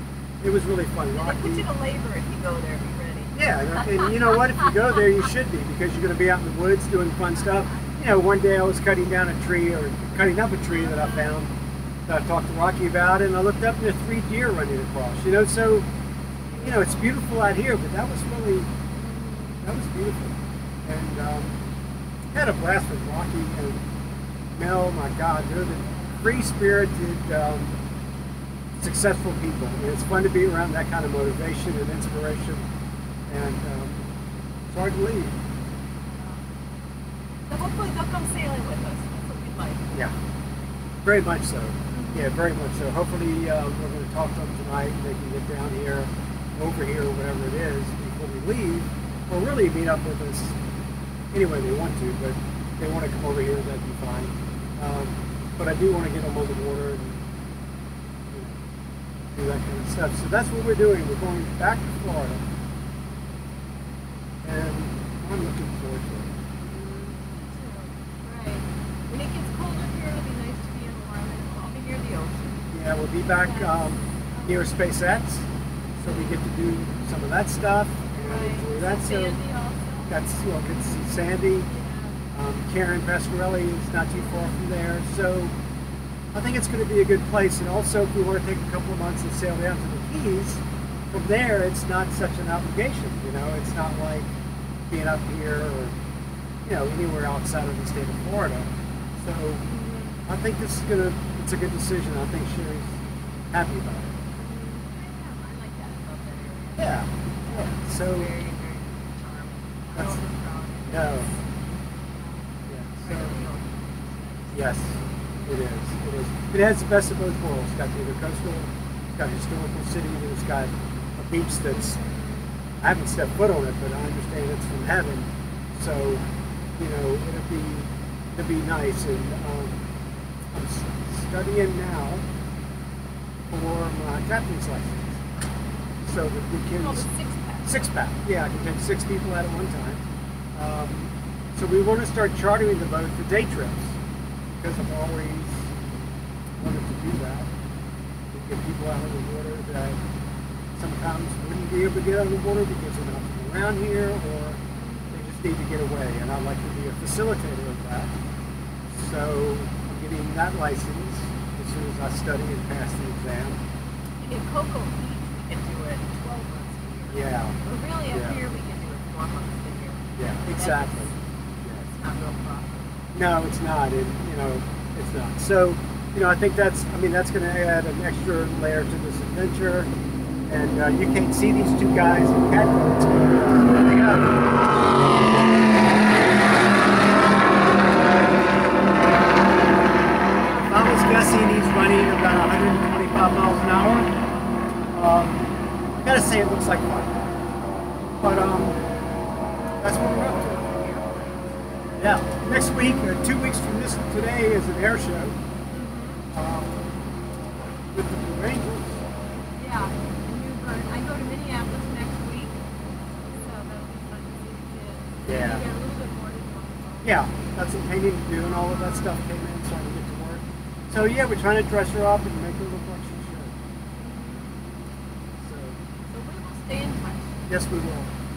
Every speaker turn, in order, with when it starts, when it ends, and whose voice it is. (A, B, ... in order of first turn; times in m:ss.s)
0:00.4-0:01.7 A
0:01.2-0:04.7 B
0:03.3-0:11.5 A
0:10.7-0:11.3 B
0:12.1-0:15.9 A
0:16.5-0:17.1 B
0:16.6-0:18.7 A
0:19.0-0:19.7 B
0:19.6-0:21.6 A
0:22.3-0:23.8 A
0:24.5-0:27.8 A
0:28.8-0:32.6 A
0:33.3-0:34.2 A
0:34.7-0:35.4 A
0:36.2-0:36.4 B
0:37.5-0:40.0 B
0:39.9-0:40.2 A
0:41.0-0:50.6 A
0:41.9-0:42.4 B
0:51.3-0:57.3 A
0:58.3-0:58.6 A
0:59.3-1:02.4 A
1:04.4-1:06.3 A
1:06.6-1:12.7 B
1:12.7-1:15.5 A
1:13.3-1:14.7 B
1:16.0-1:19.4 A
1:16.0-1:17.2 B
1:18.2-1:20.2 B
1:20.1-1:21.7 A
1:20.7-1:22.2 B
1:22.3-1:25.5 A
1:26.3-1:34.3 A
1:34.9-1:36.0 A
1:36.6-1:39.6 A
1:39.6-1:40.2 B
1:40.2-1:44.3 A
1:44.4-1:51.5 B
1:46.8-1:48.4 A
1:50.0-1:50.2 A
1:50.9-1:51.3 A
1:52.1-1:54.8 B
1:52.7-1:53.4 A
1:54.5-2:02.0 A
2:01.7-2:02.6 B
2:02.8-2:06.2 A
2:06.8-2:09.8 A
2:10.5-2:12.2 A
2:13.5-2:15.3 A
2:16.0-2:17.1 A
2:16.8-2:17.8 B
2:17.6-2:20.0 A
2:20.5-2:24.0 A
2:24.6-2:25.8 A
2:26.6-2:27.5 A
2:28.3-2:30.0 A
2:30.8-2:34.6 A
2:34.8-2:35.2 B
2:35.1-2:38.1 A
2:38.9-2:43.6 A
2:44.2-2:53.0 B
2:47.1-2:47.6 A
2:48.1-2:48.4 A
2:50.2-2:51.8 A
2:53.1-2:59.9 A
3:00.5-3:06.6 A
3:07.7-3:08.5 A
3:10.5-3:14.2 A
3:14.9-3:17.3 A
3:18.2-3:18.8 A
3:19.8-3:21.2 A
3:22.0-3:25.4 A
3:25.7-3:26.3 B
3:26.3-3:26.9 A
3:27.9-3:29.0 A
3:29.6-3:32.6 B
3:33.3-3:37.3 B
3:35.2-3:35.7 A
3:37.0-3:43.6 A
3:38.4-3:39.2 B
3:44.0-3:44.8 B
3:45.4-3:45.8 A
3:46.1-3:47.5 B
3:47.5-3:48.1 A